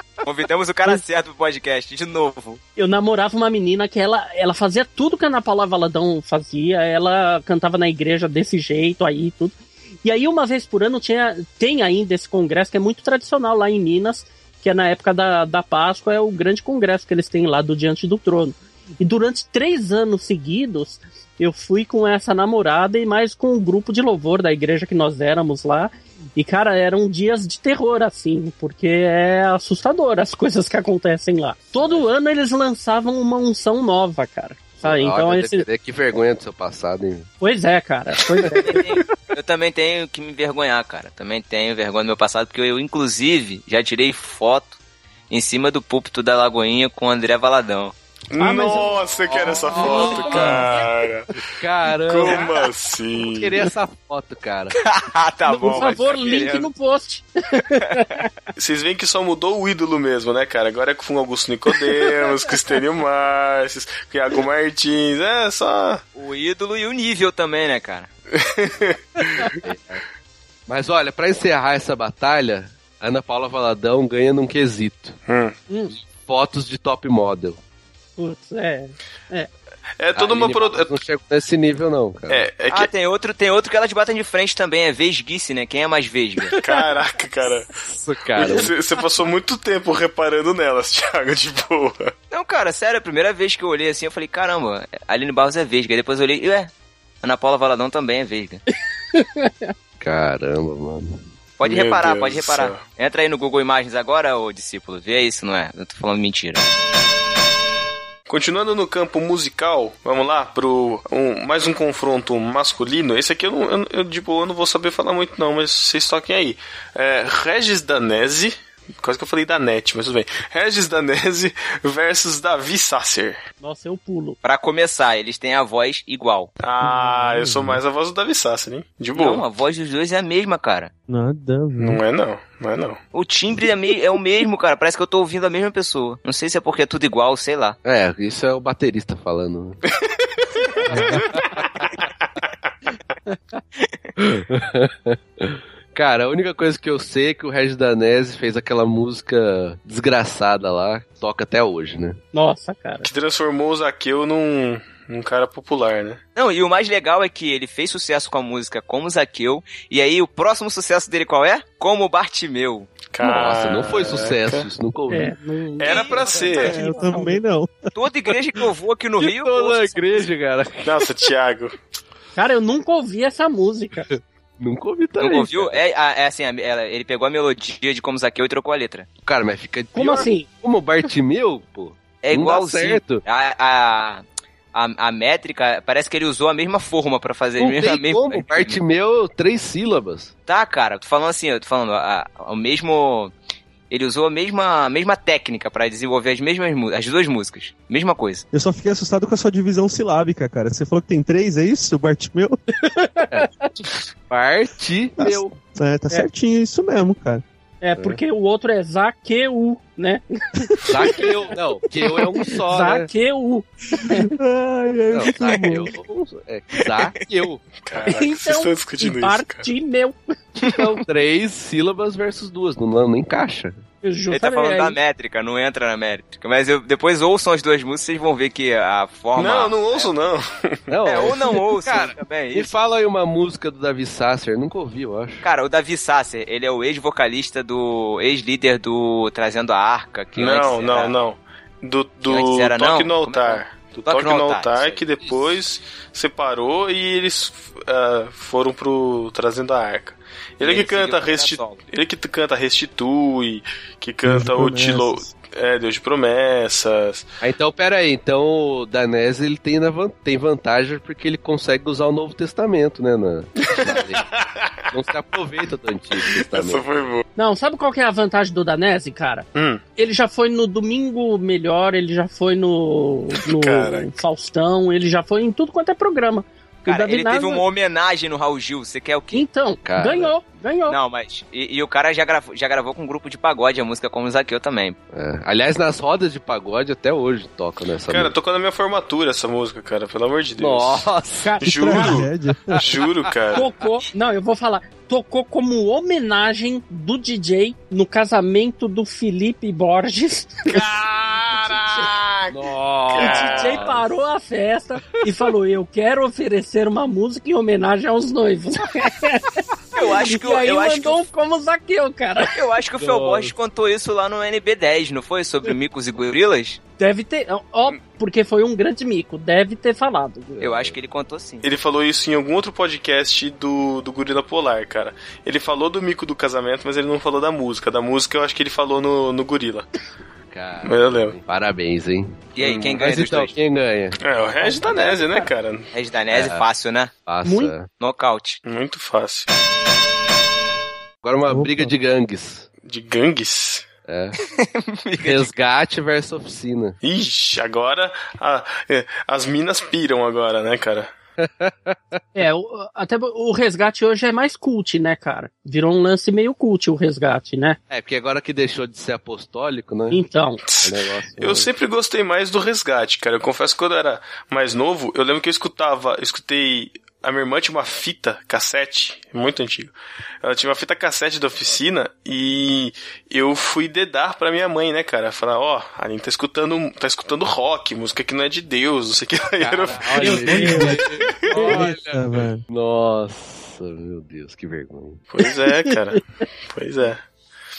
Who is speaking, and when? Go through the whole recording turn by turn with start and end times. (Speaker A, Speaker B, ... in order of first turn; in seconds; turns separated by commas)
Speaker A: 0.2-2.6, Speaker B: 2.8-35.7, Speaker C: 34.8-37.3, Speaker B: 37.4-38.8, Speaker A: 38.5-44.8, Speaker A: 45.3-47.9, Speaker D: 48.3-51.3, Speaker B: 48.4-50.8, Speaker C: 49.4-50.6, Speaker A: 50.1-50.5, Speaker C: 51.4-52.6, Speaker D: 52.0-53.6, Speaker C: 53.1-54.7, Speaker A: 54.7-56.7, Speaker B: 55.5-58.3, Speaker A: 57.8-58.2, Speaker D: 58.6-66.0, Speaker A: 66.1-68.1, Speaker D: 68.3-69.4, Speaker C: 69.6-70.0, Speaker C: 70.7-75.2, Speaker D: 75.3-75.5, Speaker B: 75.7-75.9, Speaker C: 76.0-77.6, Speaker B: 78.2-79.5, Speaker D: 80.0-81.0, Speaker C: 80.1-82.4, Speaker D: 82.3-82.9, Speaker A: 82.7-86.5, Speaker D: 86.6-87.7, Speaker C: 87.9-88.7, Speaker D: 88.3-92.1, Speaker A: 92.3-96.7, Speaker A: 97.2-98.6, Speaker B: 99.1-99.7, Speaker C: 100.0-101.3, Speaker A: 101.6-106.6, Speaker D: 101.6-102.8, Speaker D: 108.3-123.4, Speaker B: 123.6-124.4, Speaker A: 124.4-126.5, Speaker D: 126.6-129.4, Speaker E: 126.8-127.8, Speaker A: 129.1-130.9, Speaker E: 131.1-132.0, Speaker D: 131.8-133.0, Speaker A: 133.1-137.8, Speaker C: 137.8-139.8, Speaker E: 140.9-141.2, Speaker B: 143.3-143.6, Speaker C: 144.2-152.2, Speaker B: 152.3-153.1, Speaker D: 153.0-156.2, Speaker A: 156.3-162.9, Speaker D: 163.1-164.7, Speaker C: 163.2-165.3, Speaker B: 165.1-167.4, Speaker D: 165.8-166.8, Speaker A: 165.8-166.5, Speaker E: 166.6-167.9, Speaker A: 167.9-170.3, Speaker C: 169.2-171.1, Speaker D: 170.8-171.7, Speaker B: 172.3-174.1, Speaker C: 174.1-175.8, Speaker A: 175.2-179.1, Speaker C: 179.2-183.2, Speaker B: 179.9-180.5, Speaker A: 182.2-184.2, Speaker A: 184.7-188.8, Speaker C: 187.6-190.3, Speaker A: 190.5-193.3, Speaker A: 193.9-198.4, Speaker E: 198.5-202.6, Speaker B: 202.8-203.7, Speaker C: 204.3-205.6, Speaker E: 205.2-207.4, Speaker B: 207.8-214.3, Speaker C: 210.8-213.1, Speaker E: 214.2-215.8, Speaker C: 215.1-217.6, Speaker A: 215.2-215.6, Speaker D: 217.8-219.7, Speaker B: 218.0-221.0, Speaker C: 220.6-223.8, Speaker B: 224.0-225.0, Speaker A: 224.3-230.1, Speaker D: 229.3-230.9, Speaker C: 230.9-235.4, Speaker A: 231.0-232.7, Speaker A: 235.4-241.1, Speaker D: 240.3-257.2, Speaker A: 242.2-245.0, Speaker C: 245.2-245.5, Speaker A: 250.6-251.8, Speaker E: 254.2-255.3, Speaker C: 257.4-264.2, Speaker D: 263.7-264.9, Speaker C: 264.9-267.0, Speaker D: 266.2-267.2, Speaker B: 267.4-277.6, Speaker D: 269.5-269.8, Speaker D: 273.5-274.1, Speaker A: 276.8-279.4, Speaker B: 279.3-281.0, Speaker C: 279.8-280.3, Speaker A: 280.9-285.0, Speaker C: 285.1-288.3, Speaker D: 288.1-291.1, Speaker C: 290.6-291.6, Speaker B: 291.4-292.2, Speaker D: 291.6-292.2, Speaker E: 291.6-292.7, Speaker D: 292.8-293.6, Speaker B: 293.5-300.8, Speaker D: 300.7-302.6, Speaker C: 302.5-304.0, Speaker D: 303.1-303.9, Speaker B: 303.1-312.6, Speaker C: 305.0-305.5, Speaker A: 309.9-311.2, Speaker A: 312.5-316.8, Speaker C: 313.0-313.5, Speaker B: 317.0-320.6, Speaker C: 320.6-320.9, Speaker A: 320.6-321.6, Speaker D: 321.6-329.9, Speaker C: 330.4-334.2, Speaker D: 330.8-331.4, Speaker A: 332.5-333.6, Speaker D: 334.2-335.9, Speaker B: 334.6-335.5, Speaker A: 335.9-337.1, Speaker C: 336.3-336.6, Speaker C: 337.2-337.9, Speaker B: 337.4-337.7, Speaker A: 338.0-338.6, Speaker D: 338.6-339.5, Speaker C: 341.2-342.7, Speaker E: 341.5-341.9, Speaker D: 342.8-343.9, Speaker C: 344.1-344.4, Speaker A: 344.4-345.5, Speaker C: 345.2-347.0, Speaker D: 347.0-351.1, Speaker C: 351.4-352.2, Speaker B: 352.3-357.8, Speaker C: 357.9-360.2, Speaker B: 360.1-360.6, Speaker D: 360.6-381.7, Speaker C: 360.8-361.7, Speaker C: 379.6-385.2, Speaker B: 380.1-381.9, Speaker E: 380.4-381.0, Speaker E: 381.7-382.6, Speaker D: 385.3-387.2